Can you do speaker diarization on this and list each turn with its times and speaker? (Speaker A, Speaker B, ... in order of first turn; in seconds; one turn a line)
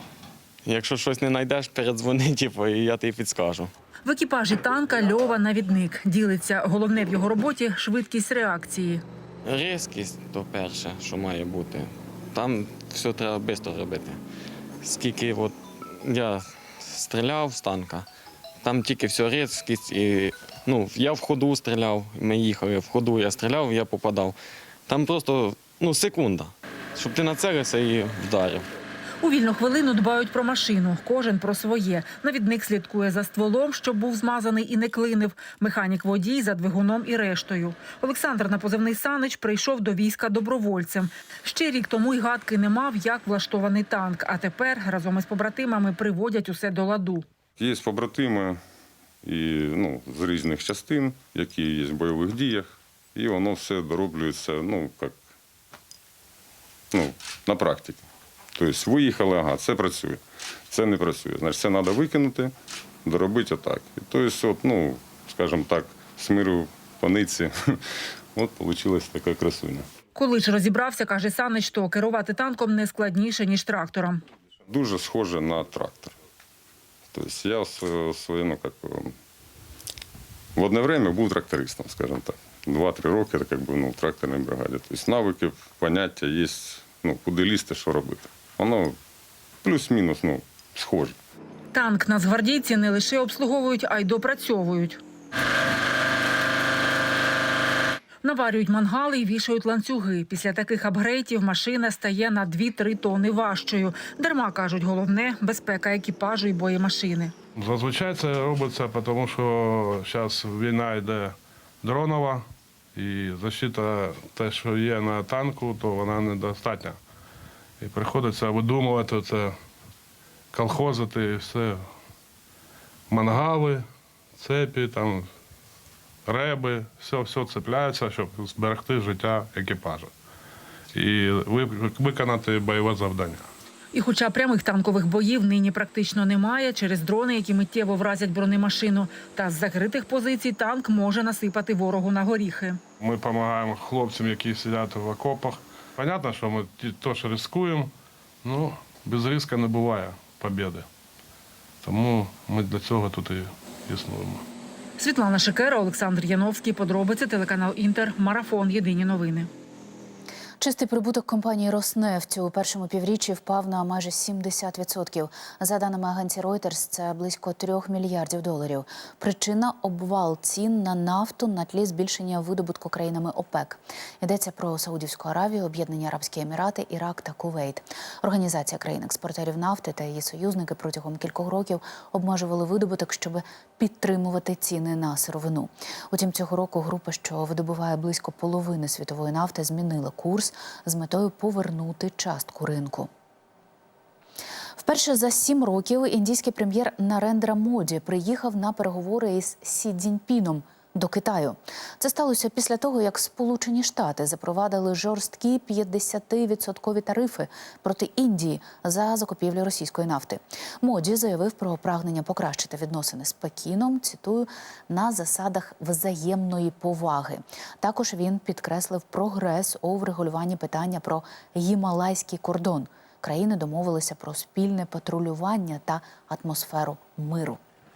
Speaker A: 0.6-3.7
Speaker B: 4.0-9.0
Speaker A: 9.4-14.2
Speaker A: 14.8-18.1
Speaker A: 18.6-24.4
Speaker A: 24.9-28.6
Speaker B: 29.2-47.2
Speaker C: 47.6-48.6
Speaker C: 49.2-55.1
Speaker C: 56.9-58.0
Speaker C: 58.5-60.2
Speaker C: 60.7-62.5
Speaker C: 63.0-67.5
Speaker C: 68.4-69.8
Speaker B: 70.1-74.2
Speaker C: 74.7-76.1
Speaker C: 77.1-79.1
Speaker C: 80.5-88.9
Speaker C: 89.6-91.2
Speaker B: 91.7-95.0
Speaker B: 98.2-107.3
Speaker D: 107.5-112.4
Speaker D: 113.0-117.0
Speaker D: 117.8-119.6
Speaker D: 120.5-121.8
Speaker D: 123.1-123.8
Speaker D: 124.4-125.3
Speaker D: 126.2-130.1
Speaker D: 130.9-133.5
Speaker B: 133.9-142.8
Speaker D: 143.0-147.9
Speaker D: 148.4-150.8
Speaker D: 151.8-154.4
Speaker B: 155.0-159.5
Speaker E: 160.6-193.1
Speaker E: 194.8-227.6